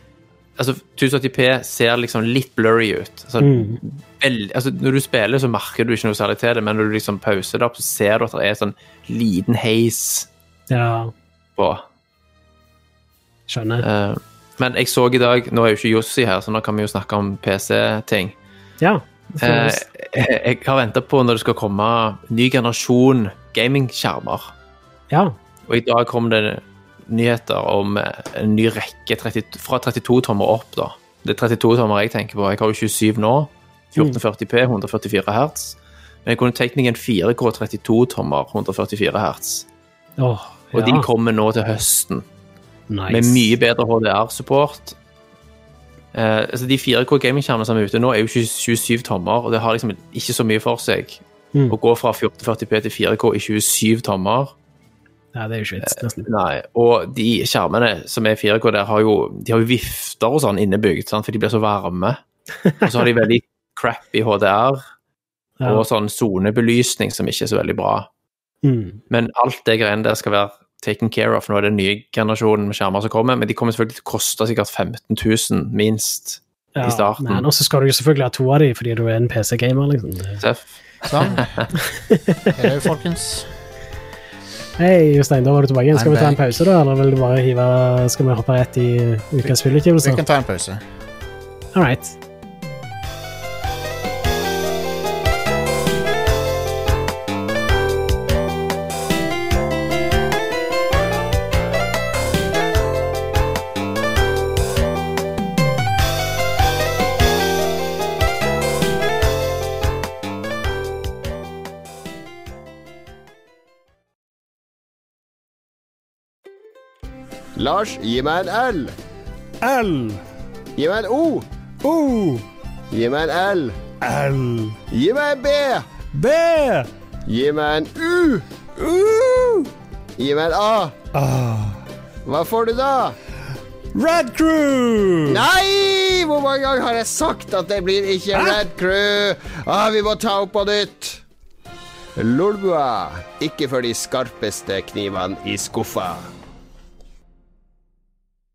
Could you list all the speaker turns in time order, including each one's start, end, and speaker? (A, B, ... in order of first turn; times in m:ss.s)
0:00.6-0:10.3 A
0:03.4-0:03.8 B
0:10.7-0:11.1 B
0:11.6-0:11.8 A
0:13.5-0:13.9 B
0:13.8-0:18.4 A
0:18.8-0:19.8 B
0:19.4-0:24.5 A
0:25.1-0:25.4 B
0:25.7-0:39.6 A
0:40.2-0:41.1 B
0:40.7-0:42.2 A
0:42.9-0:43.5 B
0:43.1-0:45.0 A
0:46.1-0:54.5 A
0:55.4-0:56.3 B
0:55.9-1:02.2 A
1:02.8-1:04.8 A
1:05.6-1:08.1 A
1:08.6-1:09.0 B
1:09.1-1:17.4 A
1:16.8-1:20.4 B
1:20.4-1:21.7 A
1:21.0-1:21.5 C
1:22.1-1:22.5 B
1:22.5-1:23.5 C
1:24.8-1:30.2 B
1:25.9-1:26.4 C
1:30.0-1:30.8 C
1:31.7-1:32.2 B
1:57.6-1:58.9 D
1:59.6-2:00.2 E
2:00.8-2:01.4 D
2:01.8-2:02.4 E
2:02.9-2:03.8 D
2:04.0-2:04.8 E
2:04.9-2:05.9 D
2:06.1-2:06.9 E
2:07.3-2:11.0 D
2:11.1-2:11.8 E
2:12.3-2:13.2 D
2:13.9-2:15.4 E
2:15.3-2:21.2 D
2:18.4-2:18.6 E
2:22.2-2:26.3 D